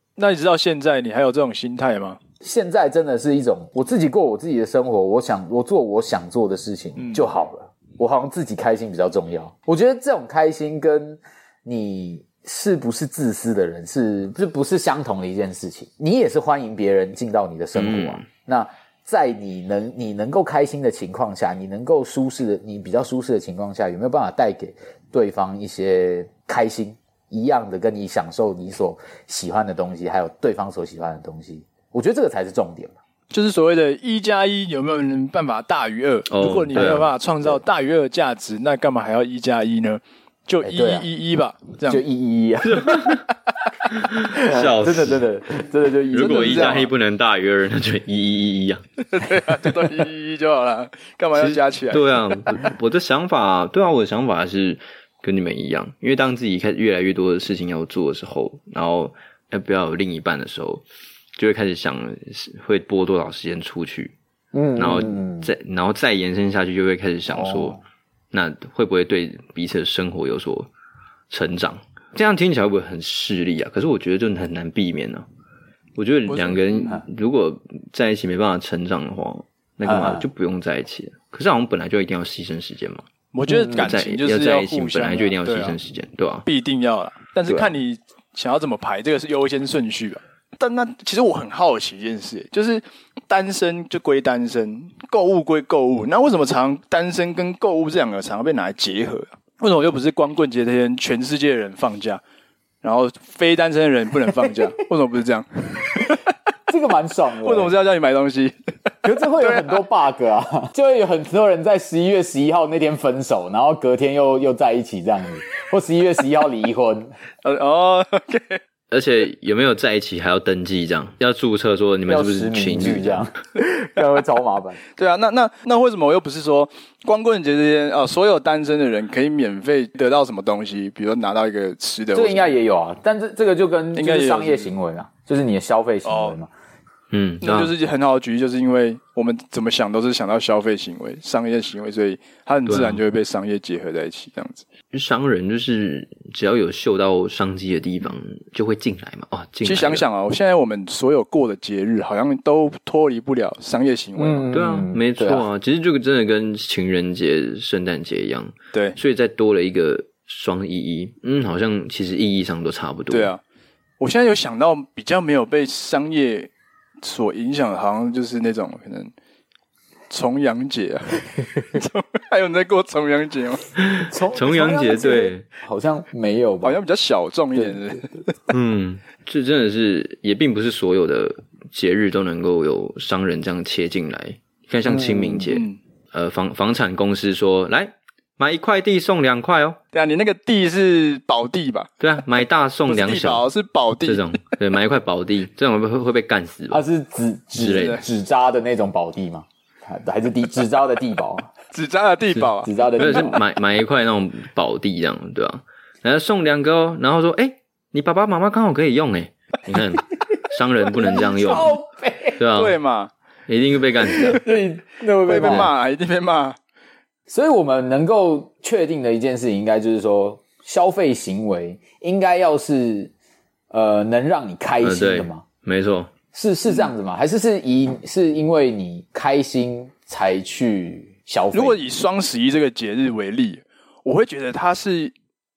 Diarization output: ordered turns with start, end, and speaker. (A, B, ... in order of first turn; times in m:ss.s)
0:00.2-0:02.2 A
0:02.4-0:33.0 B
0:07.0-0:07.2 A
0:17.7-0:18.2 C
0:33.3-0:42.0 A
0:36.3-0:37.1 C
0:40.6-0:41.1 B
0:41.9-0:43.2 B
0:42.6-0:43.3 C
0:43.9-0:45.2 C
0:44.3-0:46.9 B
0:46.1-0:48.8 C
0:46.1-0:46.9 A
0:49.0-0:52.1 A
0:51.3-1:00.8 C
1:01.4-1:04.1 C
1:04.5-1:05.5 B
1:04.8-1:07.8 C
1:07.3-1:07.8 B
1:08.3-1:10.7 C
1:11.3-1:15.2 C
1:16.0-1:23.0 C
1:16.3-1:16.9 A
1:19.8-1:20.2 B
1:23.3-1:25.8 A
1:23.5-1:23.9 B
1:23.7-1:26.5 C
1:26.4-1:42.2 A
1:27.5-1:27.8 C
1:42.8-1:46.2 A
1:46.7-1:47.7 B
1:47.4-1:48.6 A
1:49.0-1:57.1 B
1:49.4-1:49.8 A
1:57.4-1:58.6 A
1:58.9-2:03.2 C
2:02.1-2:04.8 B
2:05.0-2:12.5 A
2:12.1-2:16.5 B
2:13.9-2:14.7 A
2:16.0-2:16.4 A
2:17.1-2:17.7 C
2:17.4-2:24.6 A
2:22.7-2:23.0 C
2:24.9-2:30.0 C
2:29.6-2:34.5 A
2:34.2-2:35.4 B
2:34.5-2:43.3 C
2:43.1-2:43.4 A
2:44.0-2:46.5 A
2:47.0-2:49.1 A
2:50.1-2:53.7 A
2:53.8-2:55.4 C
2:54.1-2:56.8 B
2:56.6-2:58.3 A
2:57.5-2:57.8 B
2:58.5-3:09.8 C
3:04.8-3:05.5 B
3:05.5-3:05.8 A
3:09.9-3:11.9 A
3:12.0-3:13.4 C
3:12.9-3:14.4 A
3:14.0-3:16.8 C
3:16.7-3:21.5 B
3:17.6-3:18.0 C
3:17.7-3:18.0 A
3:21.7-3:23.1 A
3:22.6-3:23.4 B
3:23.0-3:31.8 C
3:30.9-3:32.4 B
3:32.4-3:32.8 C
3:32.5-3:33.1 A
3:33.5-3:34.4 C
3:34.2-3:35.7 B
3:35.2-3:36.6 A
3:35.4-3:35.7 C
3:37.3-3:43.1 B
3:43.7-3:45.4 B
3:44.8-3:46.1 C
3:46.3-3:51.8 B
3:51.5-3:55.1 A